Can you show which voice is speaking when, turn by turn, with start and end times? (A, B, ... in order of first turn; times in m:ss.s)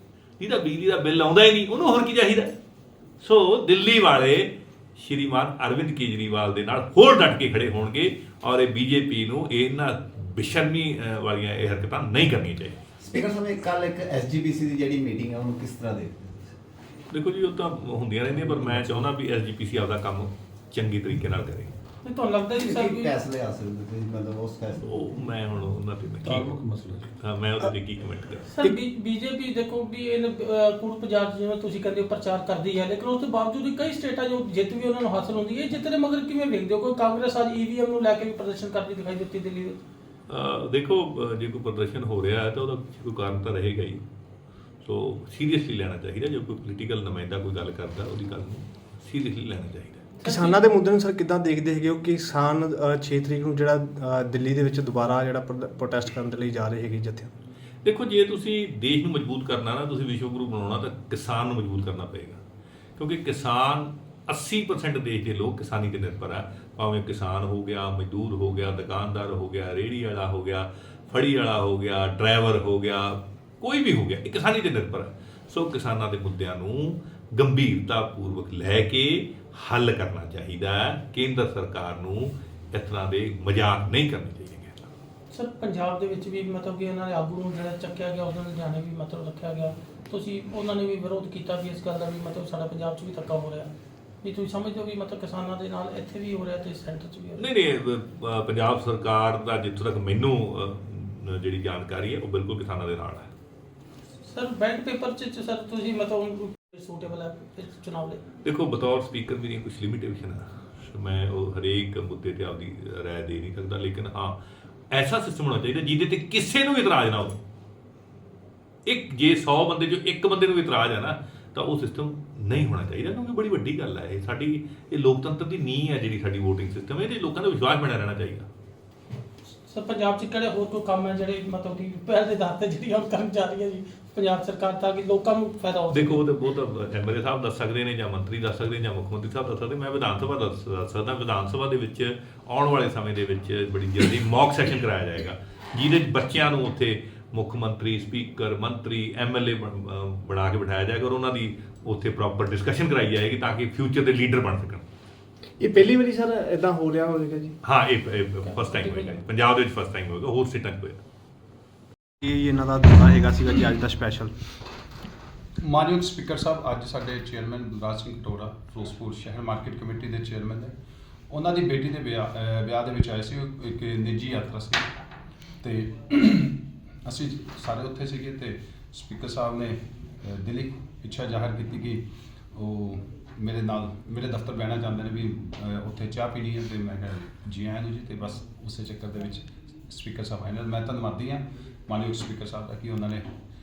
0:00.4-0:02.6 A
0:03.2-0:12.8 A
0:13.0-0:16.5 B
0:17.1-0:21.8 A
0:18.4-0:19.0 B
0:22.0-0:23.2 C
0:22.5-0:25.0 B
0:24.8-0:26.6 A
0:26.3-0:27.1 B
0:27.1-0:28.5 A
0:28.5-0:39.8 C
0:40.3-0:44.0 A
0:44.8-0:50.1 A
0:50.2-0:50.6 C
0:50.2-0:57.4 D
0:57.8-1:02.4 A
1:03.0-1:24.9 A
1:25.3-1:37.4 C
1:37.4-1:43.3 A
1:44.3-1:48.2 C
1:48.4-1:54.4 A
1:54.9-1:57.4 A
1:58.9-2:08.5 A
2:09.6-2:16.2 C
2:15.9-2:34.9 A
2:35.6-2:37.6 D
2:37.6-2:41.0 A
2:38.5-2:39.2 C
2:42.2-2:44.3 D
2:45.6-2:50.7 E
2:51.3-2:54.9 E
2:55.6-3:13.2 E